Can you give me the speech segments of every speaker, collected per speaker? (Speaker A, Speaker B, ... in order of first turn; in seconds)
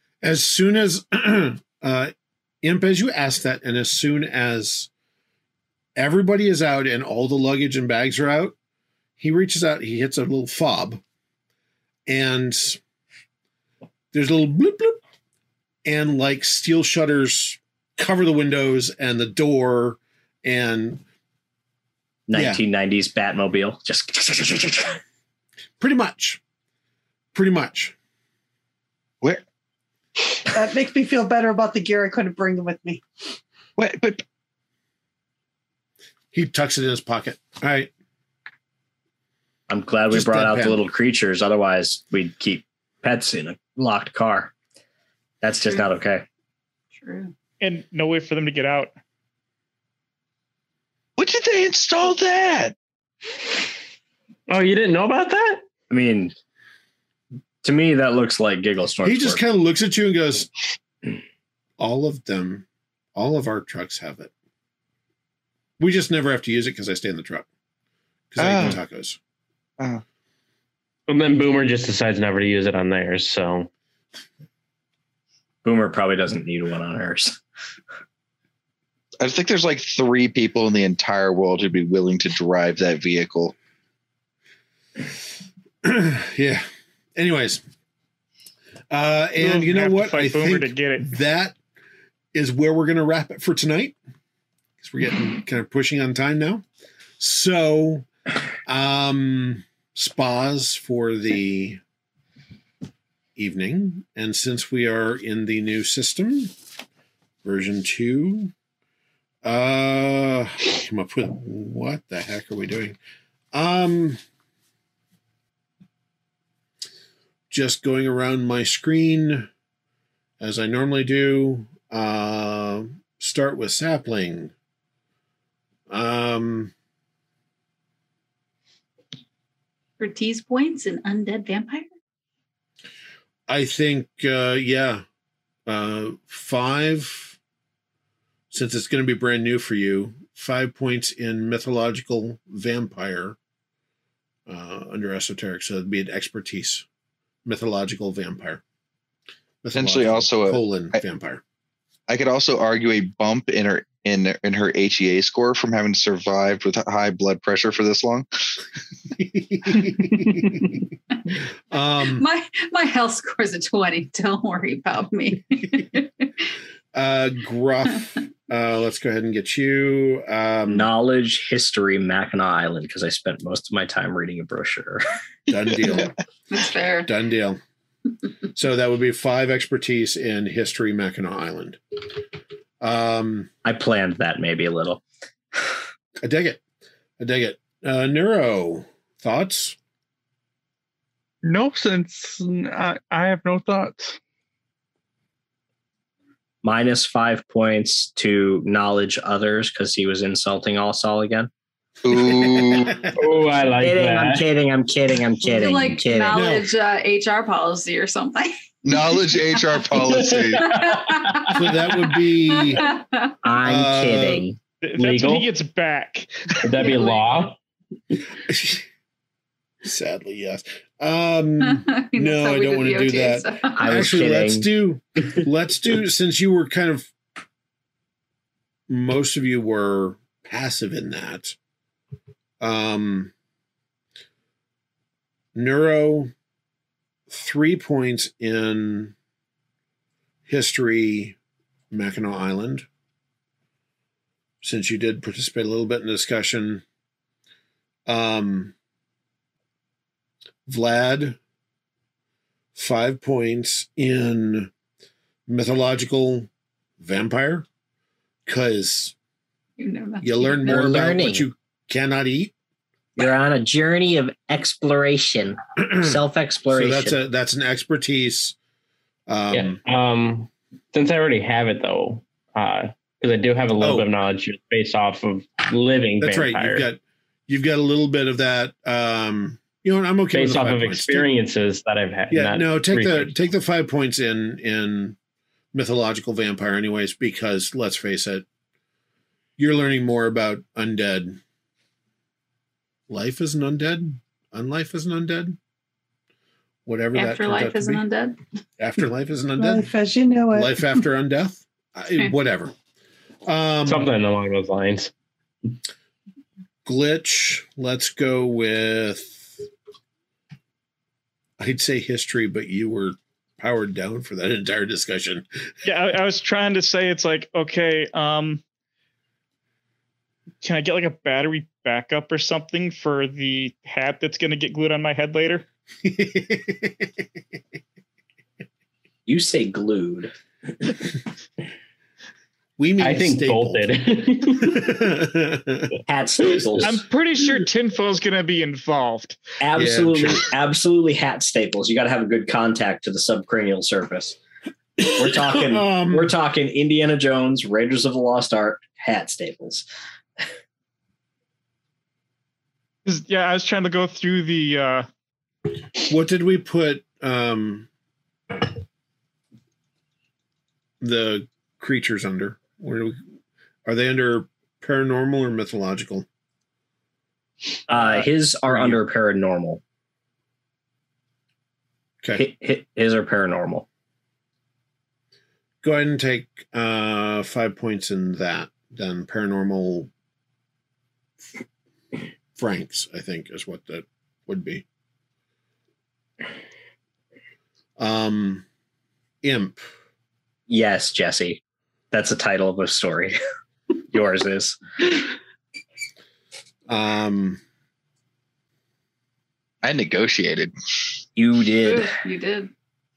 Speaker A: 0.2-4.9, 6.0-8.5, 9.2-11.0, 12.1-12.8, 14.1-15.0, 15.8-21.0, 22.3-22.6, 25.8-26.4, 27.3-27.9, 36.3-37.9, 40.1-40.9, 59.0-60.5, 61.8-64.3, 65.8-67.5, 68.3-69.2, 85.8-86.6, 87.2-87.6, 88.9-91.6, 92.3-94.0, 94.8-96.6, 97.2-98.1, 98.7-101.8, 103.4-106.5, 107.4-108.5, 109.4-113.0, 113.5-114.2, 117.5-119.5, 120.4-124.5, 125.9-126.7, 133.5-135.0, 135.7-137.3, 138.5-143.4, 144.5-146.8, 147.4-148.6, 149.6-151.4, 159.2-160.6, 161.7-162.2, 166.9-170.9, 175.5-176.1, 177.0-177.6, 178.5-181.8, 182.8-183.5, 186.2-186.6, 187.2-189.8, 206.3-206.7, 211.5-212.8, 213.6-214.4, 218.5-218.8, 219.8-227.1, 228.9-231.6, 232.6-233.3, 235.5-236.3, 237.3-239.1, 240.5-241.3, 241.9-242.8, 244.6-246.8, 248.1-248.7, 250.7-251.4, 252.7-254.7, 255.5-257.6, 258.5-259.1, 260.2-262.5, 266.7-268.5, 269.3-269.8, 273.8-274.1, 276.2-281.3, 282.3-285.1, 285.7-288.4, 289.6-291.4, 293.1-295.6, 296.9-298.0, 298.8-299.8, 300.5-302.7, 303.4-304.1, 306.8-309.5, 311.6-315.4, 326.0-326.9, 332.8-333.9, 334.7-335.8, 339.8-340.4, 345.4-346.3, 356.1-357.9, 361.0-363.2, 363.8-366.2, 368.1-369.0, 375.8-380.1, 382.6-384.8, 388.0-388.6, 389.4-389.8, 396.9-397.6
Speaker B: 22.3-25.0, 39.7-44.5, 45.4-46.2, 55.9-56.3, 57.6-59.4, 75.6-77.4, 170.7-175.0, 183.6-185.0, 196.6-201.5, 203.8-206.4, 213.4-214.6, 223.7-224.7, 260.7-261.5, 263.1-267.2, 329.3-330.3, 336.1-337.0, 339.6-344.4, 345.1-349.8, 367.9-369.8, 372.3-373.9, 390.7-393.4, 394.1-394.8, 401.4-402.1
Speaker C: 30.5-33.0, 299.6-301.0
Speaker D: 33.8-34.2, 51.2-52.7, 68.4-68.8, 79.2-83.5, 149.7-151.0, 152.1-158.2, 202.0-203.0, 208.8-210.7, 399.8-400.7
Speaker E: 47.0-47.3, 130.0-131.9, 162.1-166.3, 176.5-177.1, 205.4-209.7, 210.6-213.3, 216.8-217.2, 221.6-223.9, 259.8-261.0, 297.1-298.4, 401.8-402.7
Speaker F: 47.6-48.9, 89.4-91.1, 214.8-217.0, 315.8-318.6, 320.6-325.6, 336.8-339.4, 353.0-355.1
Speaker G: 54.5-55.6, 71.1-73.7, 203.2-204.4, 210.1-211.7, 215.0-215.5, 216.6-217.6, 269.5-276.9, 280.3-283.4, 303.9-305.1, 333.0-334.9
Speaker H: 191.4-194.2